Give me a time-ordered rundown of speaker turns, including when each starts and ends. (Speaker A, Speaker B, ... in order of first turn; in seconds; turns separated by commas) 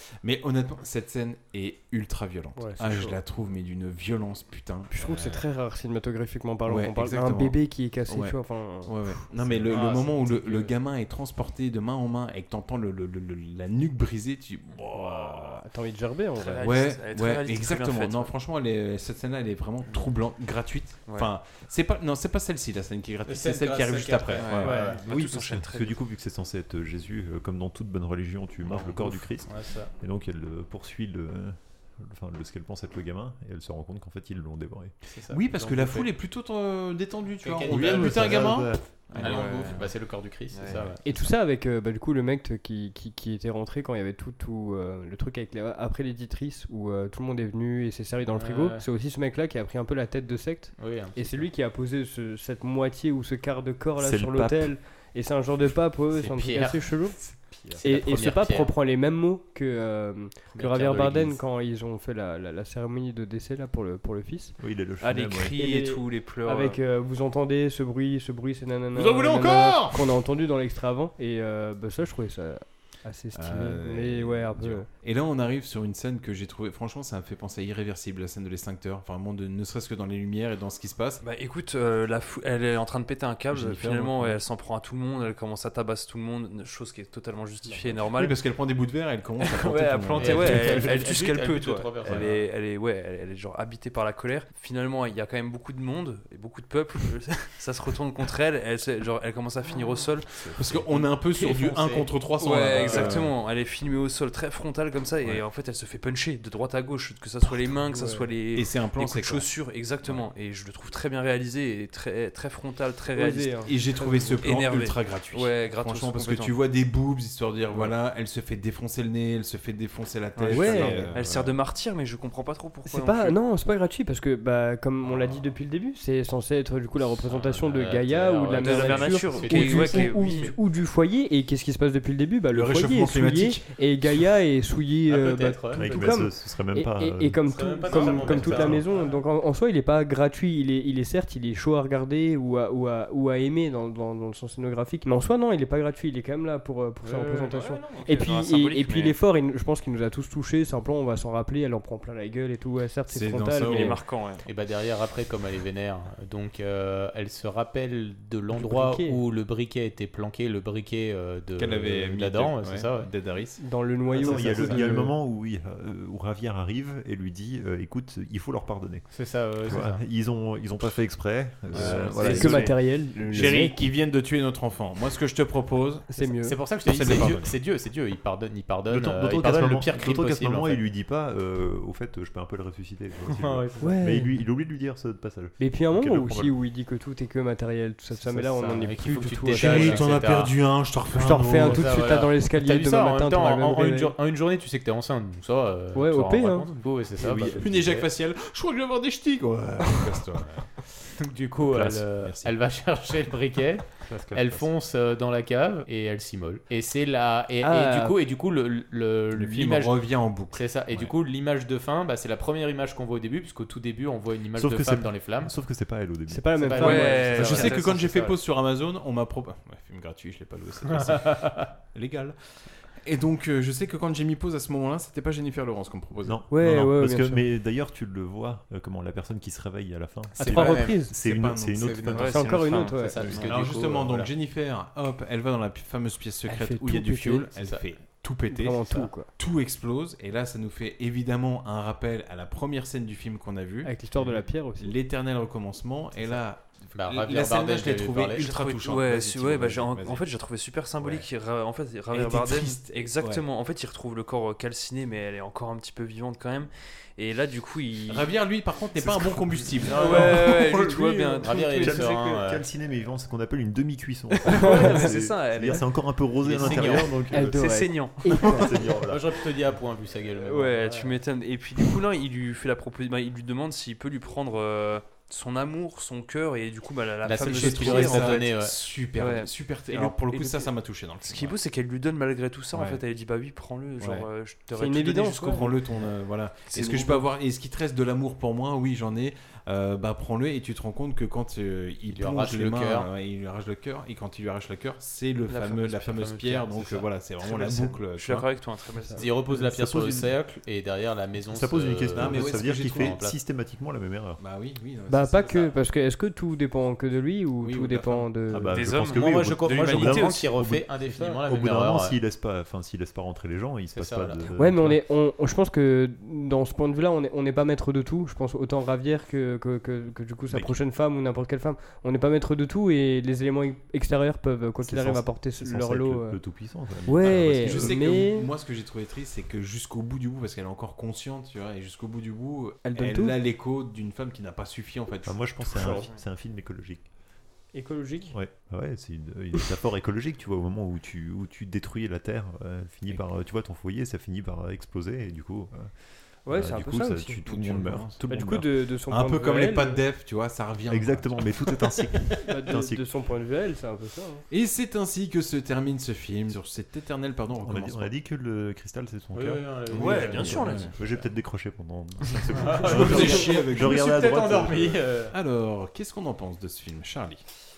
Speaker A: 0.2-5.4, Speaker B: 2.5-3.1, Speaker B: 4.9-9.2, Speaker A: 6.7-15.6, Speaker C: 9.7-10.7, Speaker B: 15.0-16.6, Speaker D: 16.4-18.3, Speaker A: 16.6-24.9, Speaker C: 23.2-25.0, Speaker D: 24.4-26.0, Speaker E: 24.7-34.9, Speaker C: 28.7-29.9, Speaker C: 35.1-36.1, Speaker A: 35.3-39.8, Speaker C: 37.4-38.6, Speaker E: 37.7-38.8, Speaker D: 39.2-39.9, Speaker C: 39.2-41.0, Speaker D: 40.5-40.9, Speaker B: 41.0-57.2, Speaker C: 48.3-48.8, Speaker C: 50.8-51.5, Speaker E: 54.0-54.7, Speaker C: 56.1-58.7, Speaker B: 57.8-64.5, Speaker C: 60.5-61.4, Speaker E: 64.6-65.6, Speaker D: 65.0-66.8, Speaker B: 65.6-74.9, Speaker A: 68.9-70.1, Speaker A: 73.3-81.2, Speaker D: 81.2-88.4, Speaker A: 83.5-84.4, Speaker A: 87.7-90.9, Speaker D: 89.4-113.6, Speaker C: 90.2-92.4, Speaker A: 100.5-103.3, Speaker B: 102.8-103.1, Speaker B: 107.9-108.3, Speaker A: 108.5-109.5, Speaker A: 110.0-110.3, Speaker B: 113.1-114.5, Speaker A: 113.7-121.5, Speaker D: 114.4-116.6, Speaker D: 120.4-123.3, Speaker B: 120.5-121.1, Speaker B: 122.8-154.0, Speaker C: 127.2-130.5, Speaker D: 128.5-130.5, Speaker A: 132.5-134.4, Speaker C: 135.1-136.2, Speaker E: 135.7-138.8, Speaker C: 137.5-138.9, Speaker D: 147.0-149.2, Speaker A: 153.1-154.0, Speaker D: 153.6-154.4, Speaker C: 154.4-163.1, Speaker B: 158.5-159.2, Speaker A: 161.6-163.6, Speaker B: 163.6-165.2, Speaker E: 164.1-169.1, Speaker C: 169.1-170.0, Speaker E: 169.6-172.7, Speaker A: 171.7-176.1, Speaker C: 171.7-172.0, Speaker B: 172.2-173.8, Speaker B: 176.1-176.6, Speaker C: 176.1-180.8, Speaker A: 176.8-177.5, Speaker E: 177.1-177.3, Speaker E: 178.9-186.3, Speaker C: 183.3-184.0, Speaker B: 183.8-184.3, Speaker B: 185.6-190.1, Speaker A: 186.3-186.5, Speaker C: 188.2-190.6, Speaker A: 189.5-191.8, Speaker B: 191.1-194.1, Speaker C: 191.5-198.1, Speaker B: 195.9-196.7, Speaker E: 197.2-197.7, Speaker A: 197.3-201.1, Speaker C: 201.2-215.5, Speaker A: 201.7-202.5, Speaker A: 204.3-204.7, Speaker B: 207.6-208.2, Speaker A: 209.3-211.1, Speaker E: 214.5-216.7, Speaker B: 216.3-217.7, Speaker C: 216.6-218.4, Speaker D: 216.8-217.9, Speaker A: 217.4-222.3, Speaker C: 221.0-221.7, Speaker A: 223.0-226.4, Speaker E: 226.2-232.3, Speaker B: 226.5-227.4, Speaker B: 230.3-231.1, Speaker C: 230.4-231.1, Speaker A: 231.1-232.2, Speaker C: 231.7-234.1, Speaker D: 232.2-232.9, Speaker B: 232.2-233.2, Speaker E: 233.2-234.3, Speaker A: 233.3-250.2, Speaker B: 236.4-237.4, Speaker B: 238.5-239.3, Speaker B: 243.8-244.9, Speaker C: 246.9-248.7, Speaker D: 248.4-258.3, Speaker A: 251.0-251.3, Speaker A: 252.1-253.4, Speaker A: 258.1-260.5, Speaker E: 259.0-260.9, Speaker C: 259.8-262.6, Speaker D: 259.9-262.0, Speaker E: 261.5-267.7, Speaker D: 264.4-265.8, Speaker B: 264.6-264.9, Speaker C: 266.4-267.2, Speaker B: 267.3-268.8, Speaker D: 267.5-268.2, Speaker E: 268.2-269.4, Speaker C: 269.0-271.2, Speaker D: 270.4-278.5, Speaker C: 277.2-278.7, Speaker A: 277.4-281.6, Speaker D: 279.1-285.6, Speaker A: 282.7-283.0, Speaker A: 284.0-284.2, Speaker B: 284.7-285.7, Speaker A: 285.5-298.5, Speaker C: 286.7-287.0, Speaker B: 286.8-287.2, Speaker C: 292.1-293.1, Speaker D: 295.5-295.9, Speaker C: 295.9-298.0, Speaker D: 298.1-299.2, Speaker C: 299.2-303.4, Speaker E: 299.4-300.3, Speaker E: 301.5-304.4, Speaker A: 302.1-303.2, Speaker A: 304.4-305.7, Speaker B: 305.1-308.8, Speaker A: 307.6-308.3, Speaker E: 308.5-315.0, Speaker D: 308.7-310.5, Speaker C: 309.1-312.2, Speaker C: 313.9-314.4, Speaker B: 314.6-326.4, Speaker E: 320.5-320.8, Speaker E: 324.8-328.1, Speaker B: 327.1-328.5, Speaker A: 327.2-336.0, Speaker B: 332.9-333.4, Speaker E: 335.2-337.0, Speaker B: 335.8-336.1, Speaker B: 337.7-338.3, Speaker E: 338.3-345.9, Speaker B: 346.4-347.4, Speaker E: 346.5-348.7, Speaker A: 347.4-348.2, Speaker B: 348.3-350.0, Speaker A: 349.1-351.5, Speaker E: 350.9-353.1, Speaker B: 352.4-354.4, Speaker A: 354.5-358.1, Speaker E: 357.6-365.0, Speaker C: 359.3-361.2, Speaker D: 359.9-360.9, Speaker A: 359.9-360.9, Speaker C: 362.5-365.3, Speaker A: 362.8-364.1, Speaker A: 365.3-367.4